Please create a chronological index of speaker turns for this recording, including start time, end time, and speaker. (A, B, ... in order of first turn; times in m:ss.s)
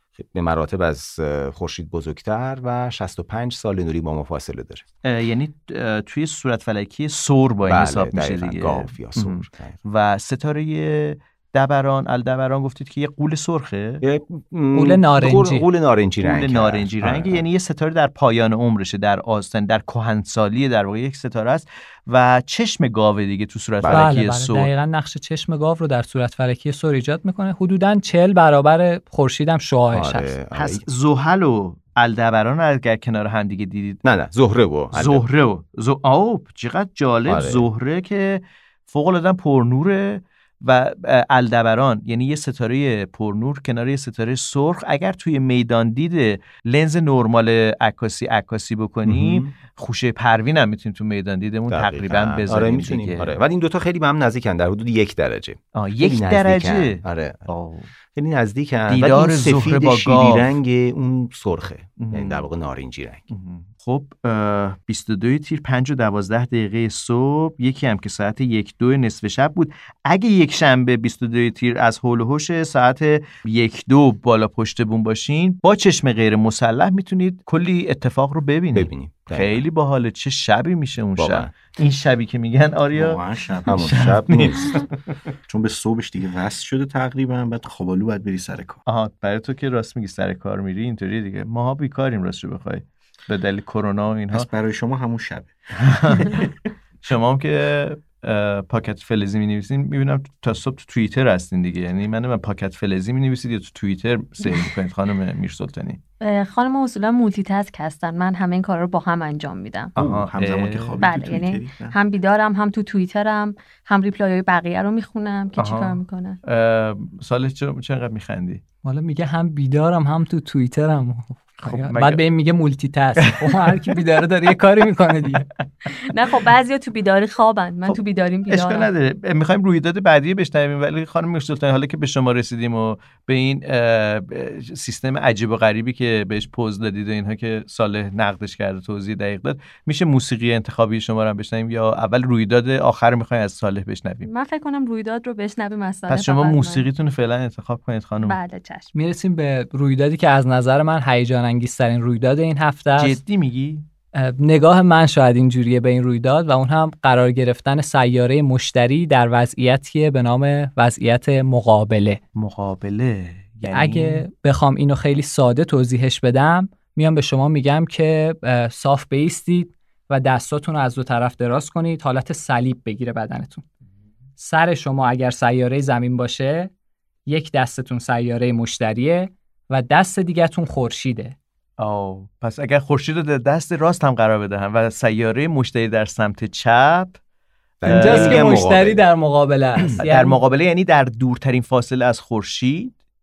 0:00.2-0:04.8 A
0:05.0-0:14.0 B
0:07.6-0:09.8 A
0:14.0-0:17.4 A
0:14.7-0:15.6 C
0:16.2-0:24.7 B
0:23.8-0:24.1 A
0:23.9-0:30.3 C
0:29.9-0:30.8 A
0:30.5-0:34.0 B
0:34.0-0:35.2 A
0:34.9-0:53.3 B
0:37.3-0:37.6 A
0:49.0-0:49.5 A
0:51.7-0:57.4 A
0:55.7-0:57.9 B
0:58.1-1:03.2 A
0:58.9-1:00.5 B
1:02.0-1:02.5 B
1:03.3-1:24.8 B
1:18.7-1:19.6 A
1:21.2-1:21.6 A
1:23.0-1:24.1 D
1:23.6-1:24.8 A
1:25.5-1:28.8 D
1:28.8-1:34.5 B
1:34.3-1:35.6 D
1:35.8-1:36.3 B
1:36.1-1:36.5 D
1:37.0-1:46.0 B
1:46.2-1:49.9 E
1:50.0-1:51.0 B
1:50.0-1:51.9 D
1:51.0-1:56.4 E
1:55.6-1:58.6 B
1:58.8-2:05.5 C
2:01.6-2:02.2 B
2:03.2-2:04.0 B
2:06.0-2:08.9 E
2:07.8-2:24.3 B
2:24.2-2:26.9 E
2:26.1-2:28.4 B
2:28.2-2:28.9 E
2:28.9-2:33.2 C
2:33.0-2:33.9 B
2:34.1-2:42.2 C
2:42.3-2:44.2 B
2:43.7-2:53.6 C
2:54.4-2:56.7 C
2:57.3-3:01.3 C
3:01.8-3:07.2 B
3:07.8-3:09.0 A
3:07.8-3:08.6 B
3:07.9-3:10.4 C
3:10.0-3:12.9 B